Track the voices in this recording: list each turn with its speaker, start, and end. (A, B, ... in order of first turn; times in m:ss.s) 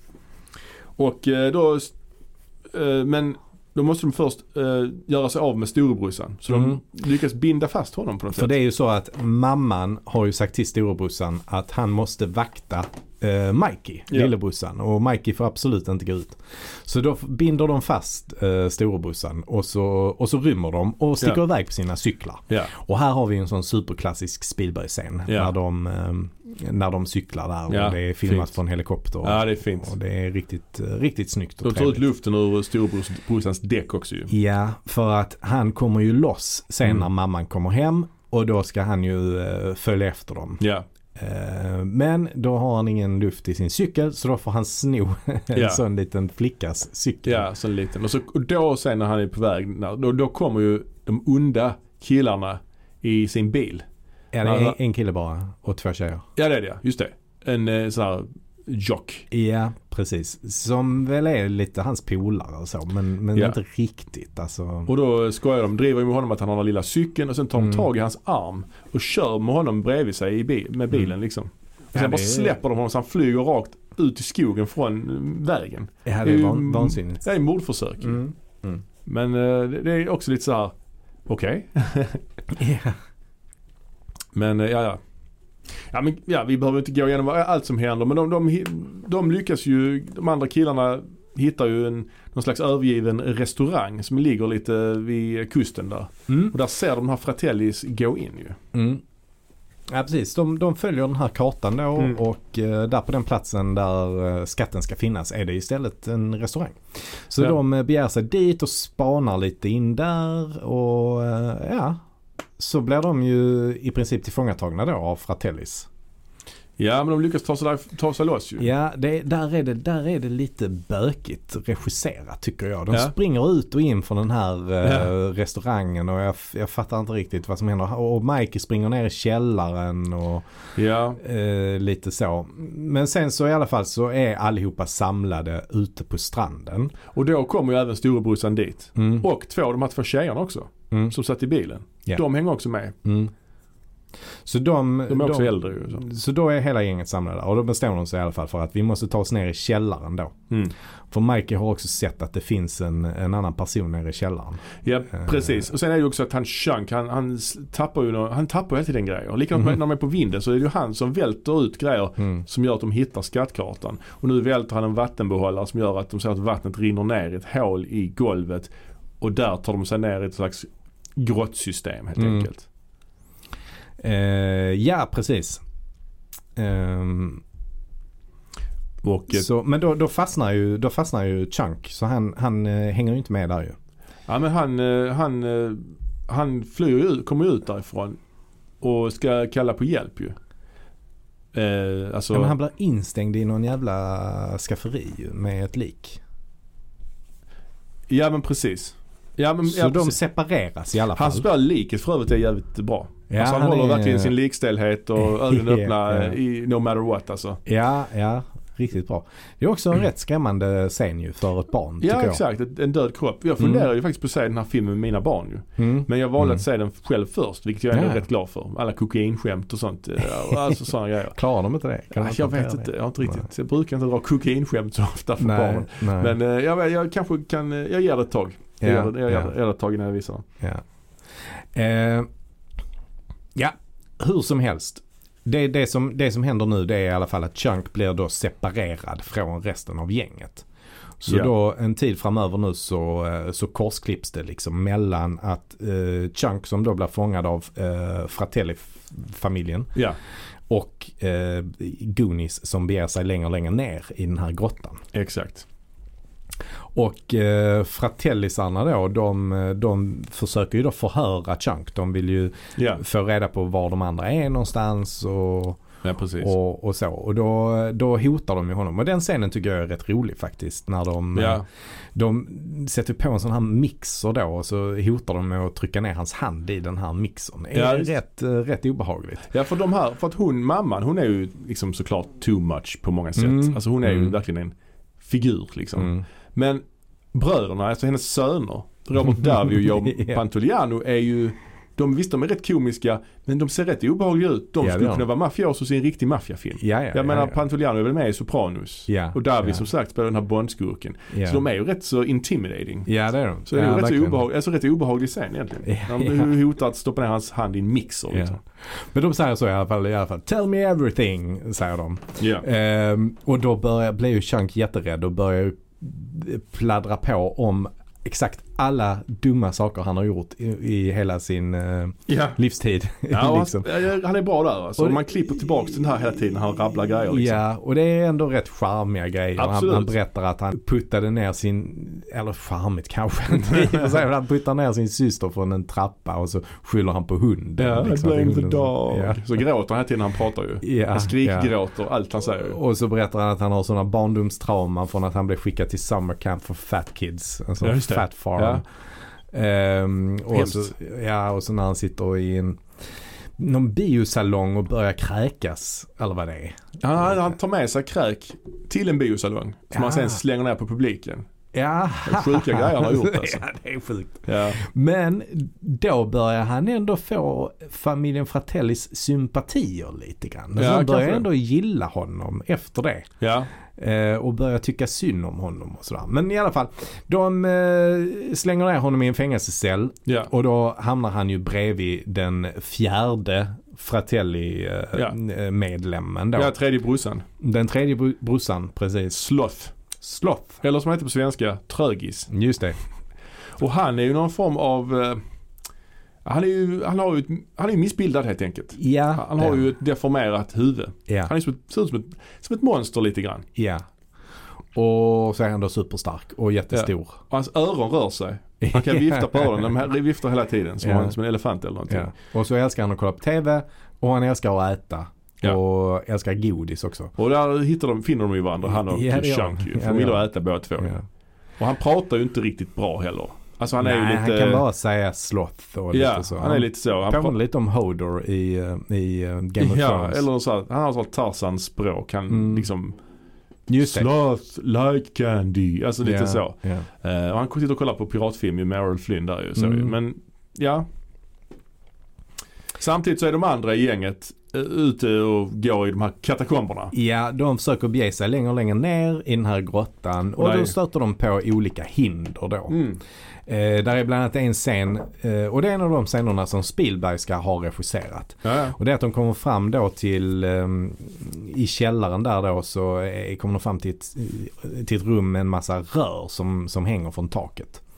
0:01.0-0:01.9 A
0:02.7-0:08.5 A
0:06.5-0:06.8 B
0:08.4-0:32.0 B
0:27.7-0:28.6 A
0:29.2-0:29.9 A
0:31.6-0:34.3 A
0:34.3-0:40.6 B
0:40.6-0:40.9 A
0:41.2-0:47.5 B
0:45.5-0:45.8 A
0:47.2-0:53.8 A
0:54.3-0:56.2 B
0:54.4-0:54.8 A
0:56.4-0:59.3 A
0:59.3-1:04.9 B
1:04.9-1:18.2 A
1:07.6-1:07.9 B
1:12.0-1:12.6 B
1:16.0-1:17.2 B
1:18.0-1:18.8 B
1:19.1-1:20.8 A
1:21.3-1:22.2 A
1:22.5-1:23.0 B
1:24.4-1:25.0 A
1:25.9-1:38.6 A
1:36.3-1:36.5 B
1:38.7-1:39.0 B
1:39.9-1:52.0 B
1:52.6-1:55.9 B
1:56.8-1:58.7 A
1:58.6-2:10.5 B
2:04.8-2:05.1 A
2:10.8-2:11.2 A
2:11.2-2:16.9 B
2:17.1-2:23.0 A
2:19.0-2:19.3 B
2:23.0-2:23.3 B
2:24.4-2:30.3 B
2:25.1-2:26.0 A
2:31.1-2:35.7 B
2:34.8-2:52.7 A
2:52.2-2:52.5 B
2:54.0-2:55.6 B
2:56.6-2:57.4 B
2:59.0-2:59.5 A
2:59.3-3:03.8 B
3:04.3-3:08.2 A
3:08.8-3:10.4 A
3:11.5-3:12.5 A
3:12.3-3:16.2 B
3:18.1-3:20.2 A
3:19.6-3:21.5 B
3:21.1-3:27.6 A
3:23.3-3:24.3 B
3:25.2-3:26.4 B
3:27.7-3:32.4 B
3:32.0-3:41.4 A
3:33.6-3:33.9 B
3:35.8-3:36.6 B
3:37.9-3:38.2 B
3:40.4-3:43.5 B
3:42.1-3:50.5 A
3:45.4-3:46.4 B
3:48.8-3:49.5 B
3:51.7-3:52.3 B
3:53.6-4:00.7 B
4:01.2-4:09.9 B
4:01.3-4:01.5 A
4:10.7-4:15.0 B
4:15.1-4:15.7 A
4:16.9-4:25.8 B
4:22.8-4:23.0 A
4:26.0-4:26.5 A
4:26.4-4:31.6 B
4:31.3-4:31.6 A
4:32.2-4:39.5 B
4:37.7-4:38.1 A
4:39.5-4:46.8 A
4:43.4-4:44.3 B
4:46.0-4:46.2 B
4:47.3-5:03.1 A
4:49.2-4:50.4 B
4:54.8-4:55.3 B
4:56.8-4:57.6 B
4:59.1-4:59.8 B
5:01.3-5:01.6 B
5:03.1-5:04.4 B
5:03.7-5:08.6 A
5:05.9-5:06.5 B
5:08.3-5:23.9 B
5:12.4-5:12.7 A
5:22.3-5:22.6 A
5:23.3-5:27.6 A
5:25.0-5:25.6 B
5:27.3-5:39.4 B
5:29.6-5:30.1 A
5:33.5-5:34.2 A
5:37.8-5:42.8 A
5:40.8-5:41.7 B
5:42.4-5:48.8 B
5:47.8-5:48.8 A
5:49.5-5:52.8 B
5:50.5-5:50.9 A
5:53.6-5:57.5 B
5:57.0-6:01.5 A
5:59.9-6:00.4 B
6:01.7-6:13.3 B
6:02.2-6:03.6 A
6:04.5-6:04.8 A
6:10.8-6:11.5 A
6:13.4-6:13.7 A
6:14.0-6:26.7 B
6:26.6-6:27.4 A
6:27.6-6:29.4 B
6:29.3-6:29.9 A
6:30.2-6:30.8 B
6:30.8-6:32.5 A
6:32.5-6:33.0 B
6:33.8-6:35.4 A
6:36.4-6:43.7 A
6:39.0-6:39.8 B
6:41.3-6:41.5 B
6:43.8-6:44.0 B
6:44.9-6:47.4 B
6:46.9-6:52.3 A
6:48.8-6:49.9 B
6:51.0-6:51.4 B
6:52.1-6:57.3 B
6:57.4-7:01.2 A
6:58.9-7:00.5 B
7:01.0-7:01.2 B
7:01.8-7:04.8 A
7:04.0-7:10.4 B
7:06.1-7:07.6 A
7:09.8-7:13.2 A
7:12.5-7:12.9 B
7:13.9-7:14.3 B
7:14.0-7:21.1 A
7:16.2-7:17.1 B
7:19.8-7:20.1 B
7:23.0-7:27.1 A
7:27.1-7:33.0 B
7:30.6-7:31.0 A
7:32.9-7:33.2 A
7:33.7-7:48.0 B
7:38.6-7:39.0 A